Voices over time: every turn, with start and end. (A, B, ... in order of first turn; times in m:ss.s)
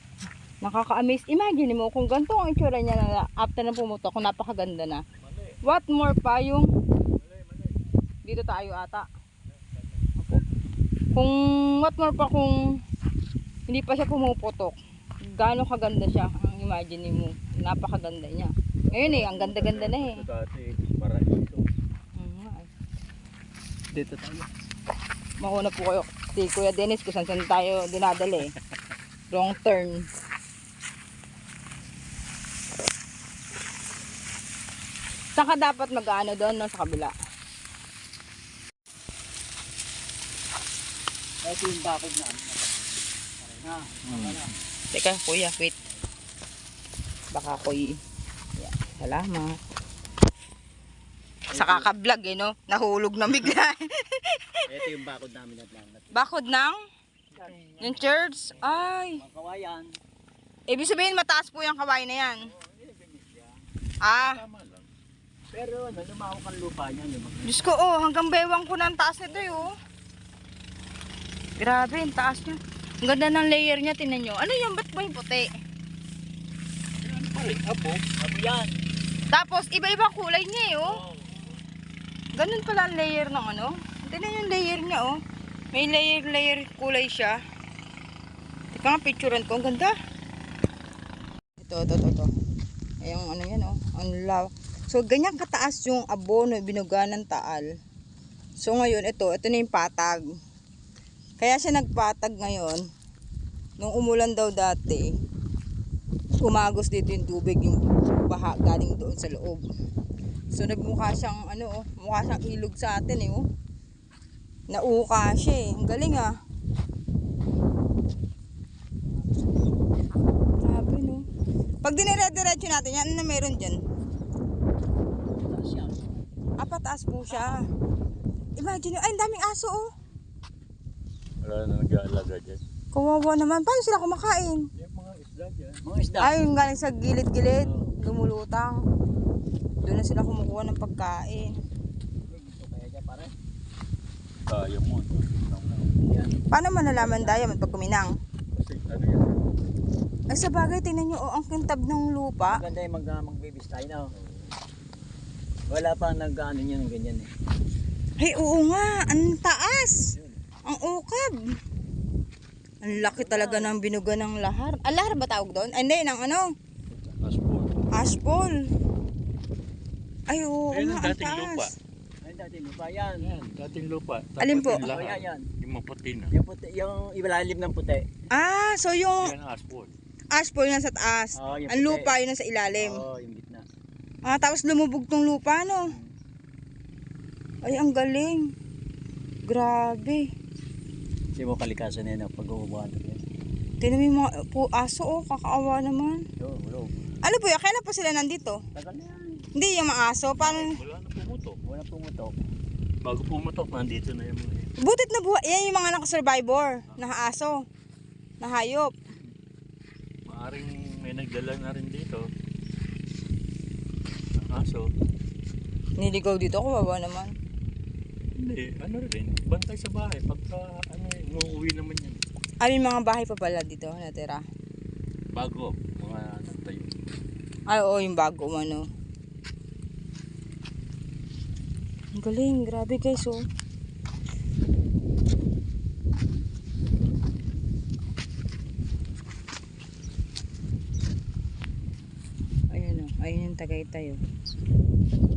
0:00.6-0:05.0 A
0:05.2-0:05.6 B
0:05.6-0:06.7 A
0:07.2-0:07.8 B
0:08.3-0:09.1 A
0:09.5-0:10.0 B
0:11.2-0:12.6 A
0:13.7-0:20.2 A
0:18.9-0:21.7 B
0:22.2-0:22.7 A
0:23.9-0:24.5 C
0:25.4-0:28.5 A
0:29.3-0:30.1 A
0:35.4-0:37.1 A
0:41.4-0:44.5 C
0:44.1-0:44.5 B
0:44.9-0:45.7 A
0:47.3-0:48.0 A
0:48.6-0:49.6 A
0:51.5-0:51.9 C
0:51.5-0:54.6 A
0:54.7-0:56.2 C
0:56.1-0:56.8 A
0:57.3-0:58.9 B
0:57.8-0:59.2 A
0:59.2-0:59.9 C
1:00.7-1:02.5 A
1:02.4-1:03.7 C
1:04.0-1:04.4 A
1:04.1-1:04.9 B
1:05.5-1:07.6 C
1:07.4-1:09.7 A
1:09.3-1:09.7 C
1:11.6-1:15.5 A
1:17.0-1:18.0 B
1:18.2-1:18.7 C
1:19.3-1:20.9 A
1:20.8-1:21.4 C
1:22.4-1:25.2 A
1:25.7-1:27.4 A
1:28.7-1:29.9 A
1:31.6-1:32.3 A
1:33.0-1:37.7 A
1:38.6-1:40.3 A
1:41.4-1:42.8 A
1:43.8-1:45.1 A
1:46.4-1:49.6 A
1:50.5-1:53.4 A
1:54.7-1:56.3 A
2:00.6-2:01.2 A
2:01.8-2:03.8 A
2:05.3-2:06.3 C
2:06.6-2:07.6 A
2:08.6-2:09.8 A
2:11.4-2:12.6 B
2:12.9-2:14.6 A
2:14.8-2:15.8 B
2:15.8-2:16.4 C
2:16.2-2:18.8 A
2:17.6-2:18.0 C
2:19.8-2:21.5 A
2:22.3-2:23.3 C
2:24.5-2:25.9 B
2:26.0-2:27.7 C
2:26.5-2:28.1 A
2:28.5-2:29.5 B
2:30.3-2:32.6 A
2:32.5-2:34.5 C
2:35.7-2:37.3 C
2:38.2-2:40.1 A
2:40.2-2:40.4 C
2:40.7-2:41.3 A
2:42.8-2:46.5 A
2:42.9-2:43.7 C
2:47.0-2:47.8 B
2:47.9-2:48.6 A
2:50.3-2:51.7 A
2:50.7-2:51.7 B
2:52.2-2:53.3 C
2:53.2-2:56.3 B
2:54.4-2:54.8 A
2:54.7-2:55.5 C
2:56.3-2:58.0 C
2:58.3-2:59.3 A
2:59.2-2:59.9 B
3:00.3-3:03.0 A
3:01.4-3:02.1 C
3:02.8-3:03.6 C
3:04.2-3:05.9 A
3:05.8-3:06.1 C
3:07.6-3:08.5 A
3:09.5-3:10.2 A
3:11.4-3:13.2 C
3:13.8-3:16.2 A
3:16.4-3:17.0 C
3:17.2-3:18.6 A
3:18.8-3:19.4 C
3:19.6-3:20.6 A
3:20.4-3:21.6 B
3:21.6-3:22.4 C
3:23.0-3:24.7 B
3:24.8-3:27.6 A
3:28.4-3:28.9 A
3:30.3-3:32.2 B
3:34.4-3:34.9 B
3:36.0-3:37.3 A
3:38.4-3:42.2 B
3:42.6-3:44.4 A
3:45.3-3:46.9 B
3:47.7-3:48.9 A
3:52.2-3:53.4 A
4:02.7-4:04.2 A